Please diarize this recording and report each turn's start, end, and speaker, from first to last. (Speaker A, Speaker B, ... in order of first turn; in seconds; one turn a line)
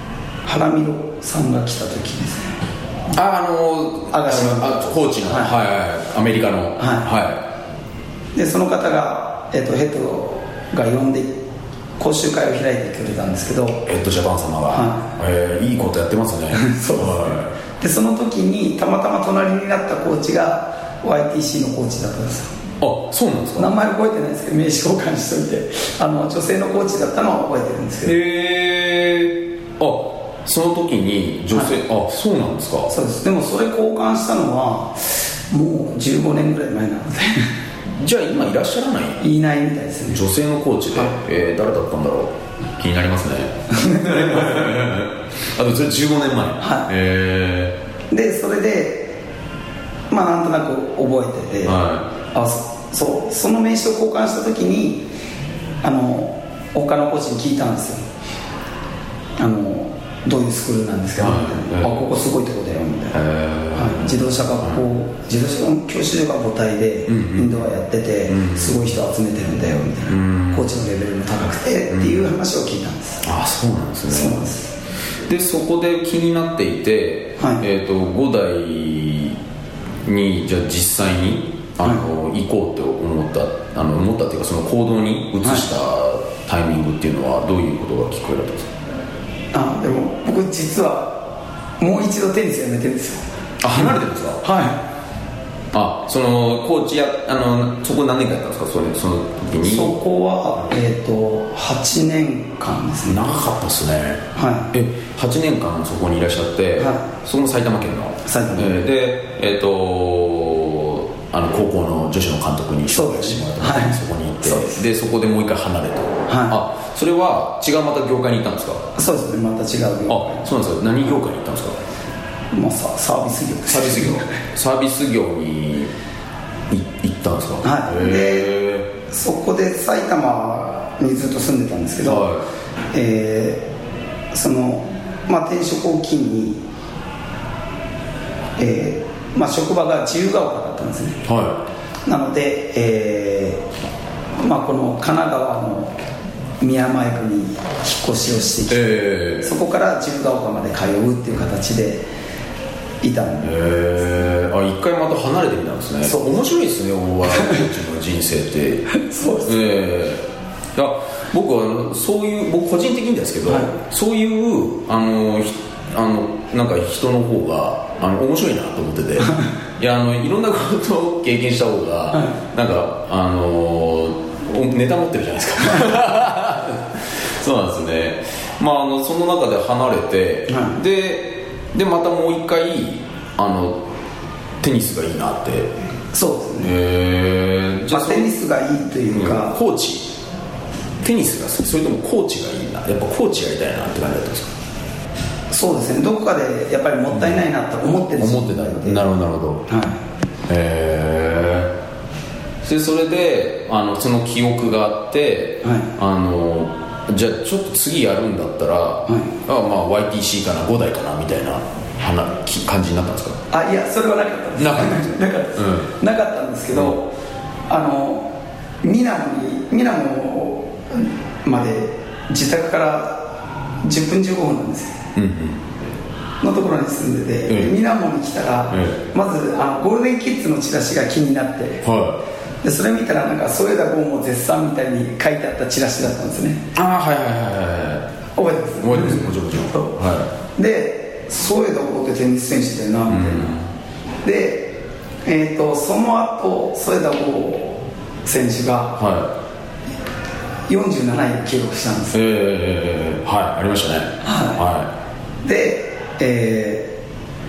Speaker A: 0.4-2.6
Speaker B: 3.1-7.4
Speaker A: 4.1-5.5
Speaker A: 6.8-7.1
Speaker A: 8.3-11.4
Speaker A: 12.0-13.8
Speaker B: 13.9-17.5
Speaker A: 14.7-15.1
Speaker A: 16.5-22.5
Speaker B: 22.8-23.7
Speaker A: 23.6-28.2
Speaker B: 28.0-32.9
Speaker A: 32.9-37.5
Speaker B: 37.9-39.2
Speaker A: 39.2-40.2
Speaker B: 40.1-47.8
Speaker A: 43.7-44.5
Speaker A: 46.6-46.9
Speaker A: 48.1-49.2
Speaker A: 50.1-51.8
Speaker B: 51.6-52.1
Speaker A: 52.3-55.1
Speaker A: 55.8-58.0
Speaker A: 59.4-63.2
Speaker B: 61.2-62.1
Speaker B: 63.1-64.8
Speaker A: 63.7-73.2
Speaker B: 67.1-67.7
Speaker B: 68.3-68.9
Speaker B: 70.1-70.7
Speaker B: 71.9-72.3
Speaker B: 73.2-74.6
Speaker A: 74.1-74.7
Speaker B: 75.3-79.4
Speaker B: 80.0-88.7
Speaker A: 89.5-91.2
Speaker A: 91.8-93.2
Speaker B: 93.6-94.4
Speaker A: 93.7-94.8
Speaker B: 95.7-100.0
Speaker A: 99.6-103.3
Speaker B: 103.1-118.8
Speaker A: 104.3-104.7
Speaker A: 106.8-107.0
Speaker A: 108.2-108.7
Speaker A: 112.9-114.8
Speaker A: 116.3-116.6
Speaker A: 119.0-120.5
Speaker B: 120.1-121.8
Speaker A: 122.5-124.4
Speaker B: 123.7-125.9
Speaker B: 126.7-128.9
Speaker A: 127.6-128.5
Speaker A: 129.1-132.3
Speaker B: 132.0-132.4
Speaker A: 132.9-133.6
Speaker A: 134.3-136.6
Speaker A: 138.6-141.2
Speaker B: 141.3-141.6
Speaker A: 142.1-143.6
Speaker A: 144.4-146.0
Speaker A: 146.6-148.9
Speaker B: 148.7-149.5
Speaker A: 149.4-152.0
Speaker A: 153.0-153.5
Speaker B: 153.4-158.9
Speaker A: 156.1-156.3
Speaker A: 157.3-157.6
Speaker A: 158.9-159.6
Speaker B: 159.4-183.9
Speaker A: 180.5-180.8
Speaker B: 184.6-185.7
Speaker A: 186.1-186.7
Speaker B: 186.6-188.3
Speaker A: 187.9-189.6
Speaker B: 189.1-190.1
Speaker B: 191.0-194.5
Speaker A: 195.5-199.0
Speaker B: 197.1-197.4
Speaker B: 198.2-199.7
Speaker A: 199.7-200.0
Speaker B: 200.5-201.7
Speaker B: 202.6-213.4
Speaker A: 205.6-205.9
Speaker A: 213.5-217.1
Speaker B: 214.6-215.9
Speaker A: 217.7-223.3
Speaker A: 223.8-225.0
Speaker B: 225.2-225.6
Speaker A: 226.4-231.8
Speaker B: 227.5-227.7
Speaker B: 228.7-229.0
Speaker B: 231.8-232.2
Speaker A: 232.6-236.7
Speaker B: 236.8-238.1
Speaker A: 238.4-240.0
Speaker B: 238.8-240.3
Speaker A: 240.6-243.5
Speaker B: 243.1-243.7
Speaker A: 244.2-249.0
Speaker B: 249.0-249.3
Speaker A: 250.7-252.2
Speaker B: 252.1-254.9
Speaker A: 254.2-254.6
Speaker A: 255.4-256.9